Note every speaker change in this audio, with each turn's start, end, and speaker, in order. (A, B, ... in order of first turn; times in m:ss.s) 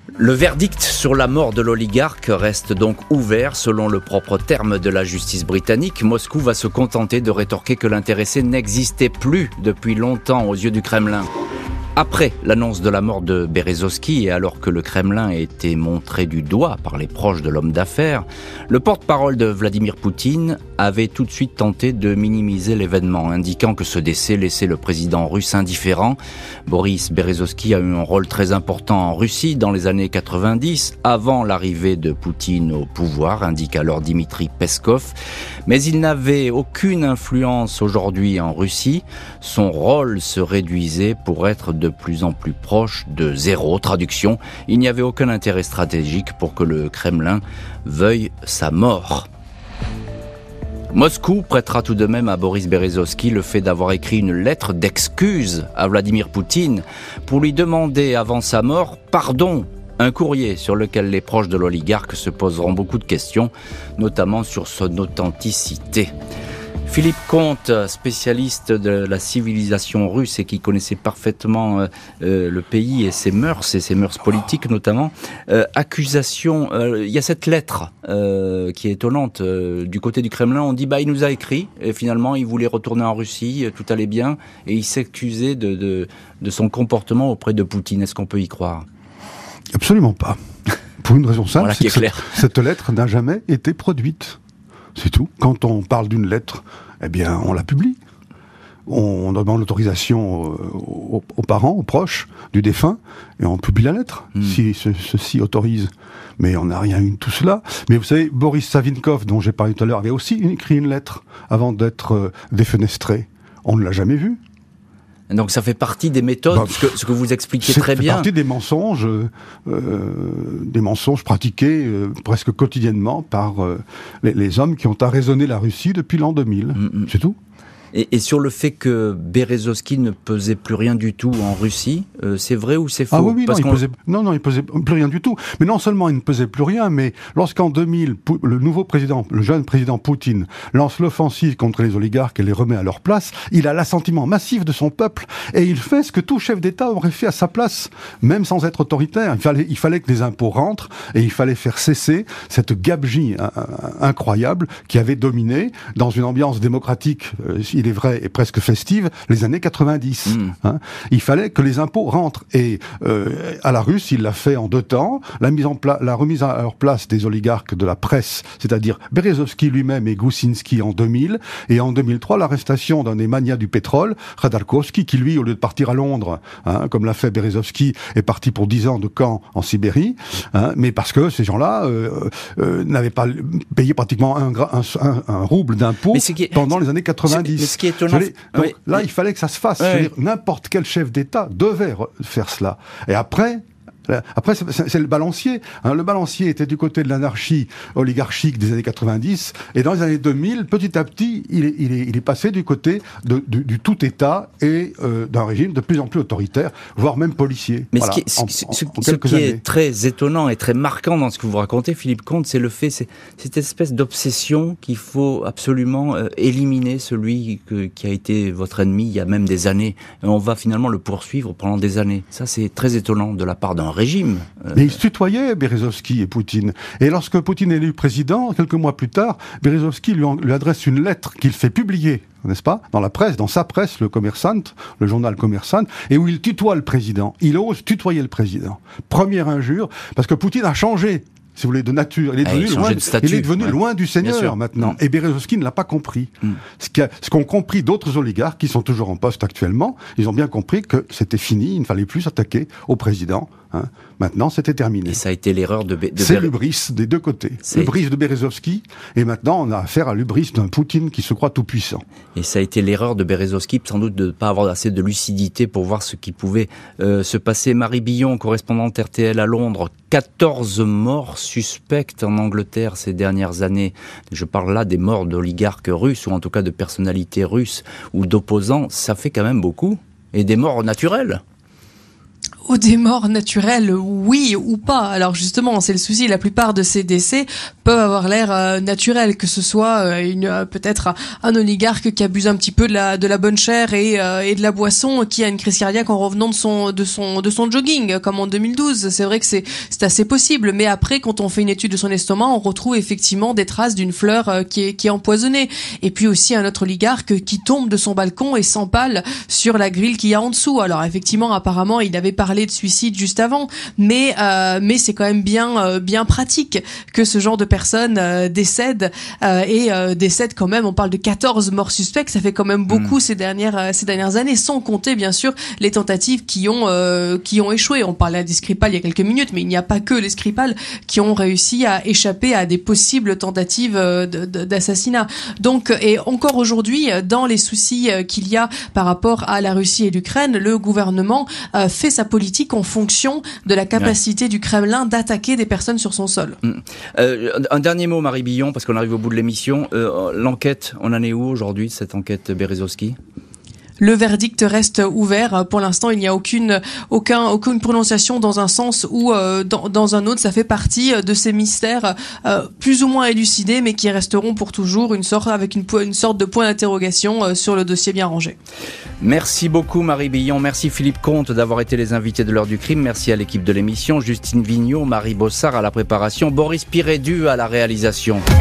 0:00.2-0:11.3 A
0:12.0-0:49.3 A
0:50.9-1:06.1 A
1:06.8-1:28.8 A
1:29.7-1:30.4 B
1:31.0-1:34.4 B
1:31.6-1:32.4 A
1:34.9-1:38.0 B
1:38.9-1:54.4 B
1:55.3-1:58.3 A
1:56.5-1:57.0 B
1:57.6-2:07.4 B
2:06.8-2:07.1 A
2:07.9-2:13.8 A
2:13.1-3:29.6 B
2:40.3-2:40.5 A
3:06.1-3:06.7 A
3:07.2-3:09.0 A
3:09.8-3:10.1 A
3:27.9-3:44.8 A
3:44.7-4:15.2 B
4:02.4-4:05.0 A
4:15.1-4:16.5 A
4:16.2-4:22.0 B
4:17.6-4:17.9 A
4:22.3-4:41.4 A
4:42.7-5:46.6 C
5:22.9-5:23.1 A
5:46.6-5:53.2 A
5:54.0-6:08.6 C
6:09.2-6:18.4 A